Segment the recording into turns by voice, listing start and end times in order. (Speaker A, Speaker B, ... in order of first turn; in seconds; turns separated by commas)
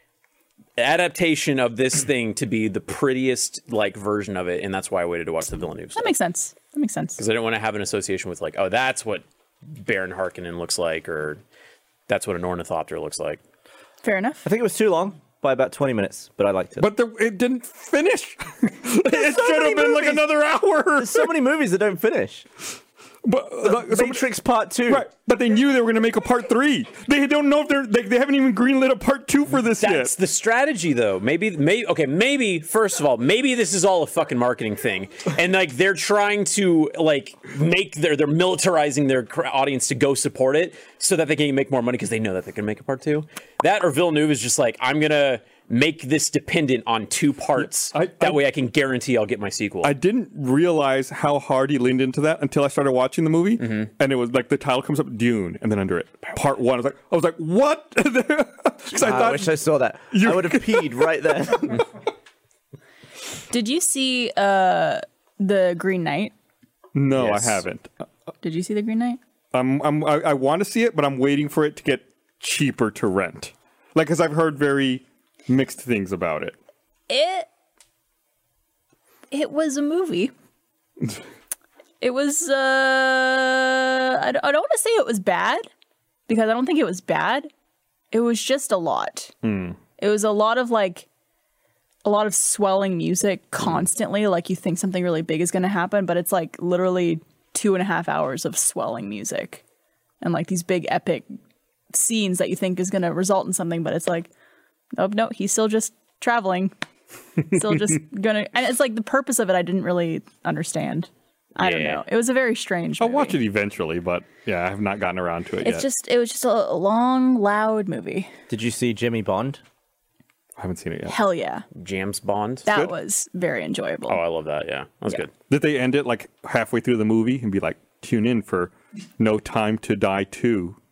Speaker A: 0.8-6.1, Speaker B: 6.0-7.2, Speaker A: 7.2-11.4, Speaker A: 12.1-13.4, Speaker B: 14.0-14.4, Speaker C: 14.4-16.9, Speaker D: 16.8-21.3, Speaker C: 19.2-20.3, Speaker C: 21.0-22.5, Speaker D: 23.2-24.2, Speaker C: 23.6-25.1, Speaker D: 24.9-30.1, Speaker A: 29.8-50.0, Speaker D: 47.6-48.4, Speaker D: 49.8-59.6, Speaker A: 53.6-53.9, Speaker C: 58.9-61.8, Speaker D: 60.1-61.0, Speaker B: 63.5-66.3, Speaker D: 67.0-67.9, Speaker A: 67.2-67.6, Speaker B: 68.4-69.2, Speaker D: 69.5-76.5, Speaker B: 77.1-77.5, Speaker B: 79.3-80.3, Speaker B: 82.0-85.7, Speaker B: 86.3-87.5, Speaker B: 88.1-89.3, Speaker D: 89.4-89.8, Speaker B: 90.0-91.1, Speaker B: 92.0-99.6, Speaker B: 100.2-101.3, Speaker B: 101.9-104.3, Speaker B: 105.0-106.7, Speaker B: 107.4-113.4, Speaker A: 111.6-112.0, Speaker D: 113.0-115.9, Speaker B: 115.6-118.3, Speaker C: 118.5-119.6, Speaker D: 120.6-121.2, Speaker B: 121.1-121.7, Speaker A: 121.7-122.7, Speaker B: 122.7-124.2, Speaker D: 122.7-122.9, Speaker A: 124.1-125.3, Speaker D: 125.5-130.8